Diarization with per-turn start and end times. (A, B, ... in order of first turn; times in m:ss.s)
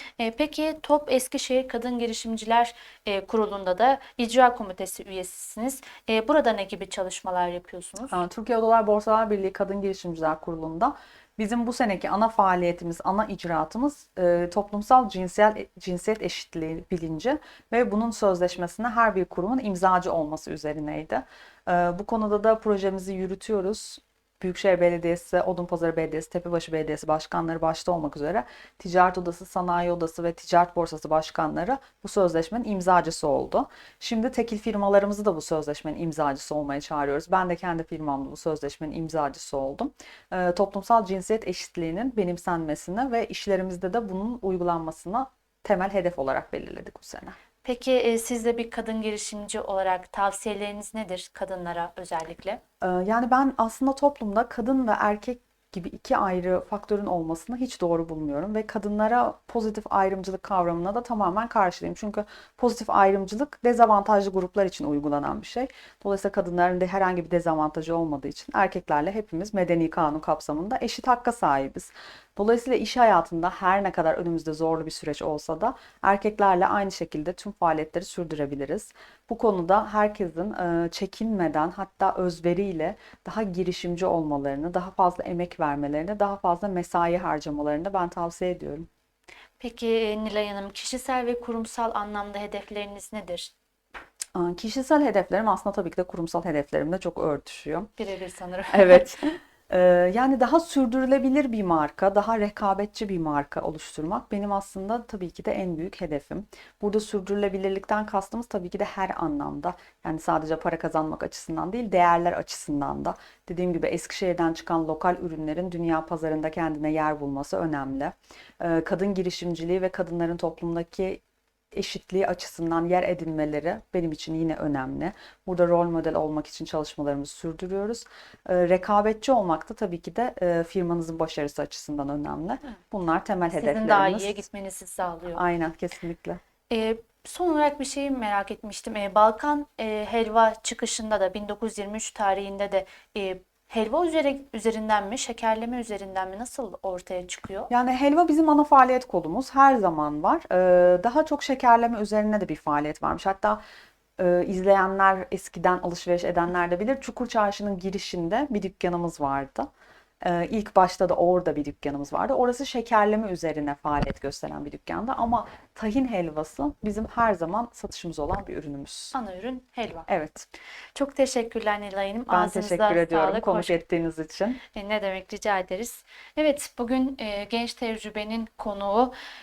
0:00.2-0:08.2 A
0:08.1-0:47.4 B
0:47.6-0:52.6 A
0:52.8-1:28.9 B
1:29.6-1:33.5 A
1:34.3-1:37.9 B
1:38.0-1:39.1 A
1:38.7-2:01.2 B
2:01.7-2:14.4 B
2:13.5-2:15.4 A
2:15.3-2:16.4 B
2:16.7-2:27.7 A
2:27.7-2:33.6 B
2:34.2-2:39.7 B
2:40.2-2:49.2 B
2:49.1-2:50.1 A
2:50.1-2:50.5 B
2:50.9-2:53.8 A
2:52.3-2:54.6 B
2:54.7-2:59.1 A